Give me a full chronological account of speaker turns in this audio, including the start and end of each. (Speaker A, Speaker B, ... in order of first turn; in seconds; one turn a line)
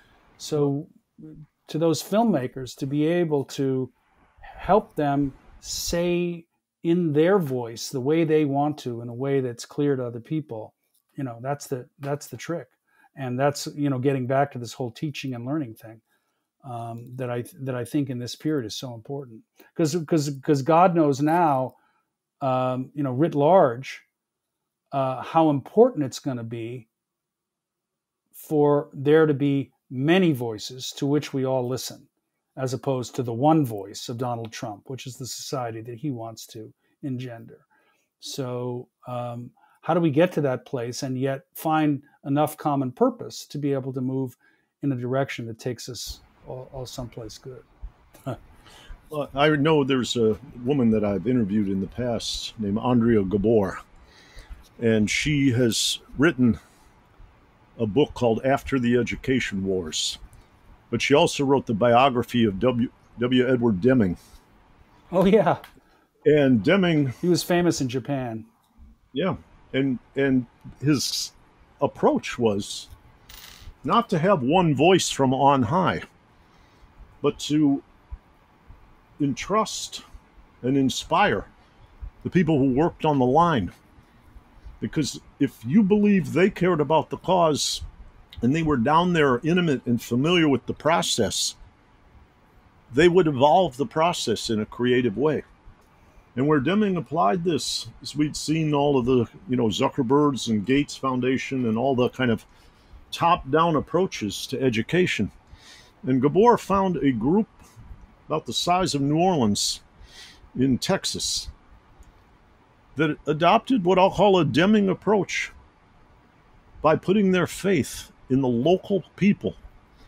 Speaker A: 0.4-16.0
Speaker A: 16.6-21.8
Speaker A: 22.4-24.1
Speaker A: 24.9-26.9
Speaker A: 28.4-37.7
Speaker A: 38.2-47.6
Speaker B: 49.1-53.8
Speaker B: 54.8-56.6
Speaker B: 57.8-60.2
Speaker B: 60.9-64.2
Speaker A: 65.1-65.6
Speaker B: 66.3-67.2
Speaker A: 67.2-68.5
Speaker B: 69.1-72.9
Speaker B: 73.8-76.0
Speaker B: 77.2-77.8
Speaker B: 79.2-80.0
Speaker B: 80.6-81.5
Speaker B: 82.2-83.7
Speaker B: 84.8-87.8
Speaker B: 88.4-91.6
Speaker B: 92.9-95.5
Speaker B: 96.3-102.5
Speaker B: 103.1-105.3
Speaker B: 106.0-107.6
Speaker B: 108.3-109.8
Speaker B: 110.5-111.5
Speaker B: 113.0-115.5
Speaker B: 116.8-119.6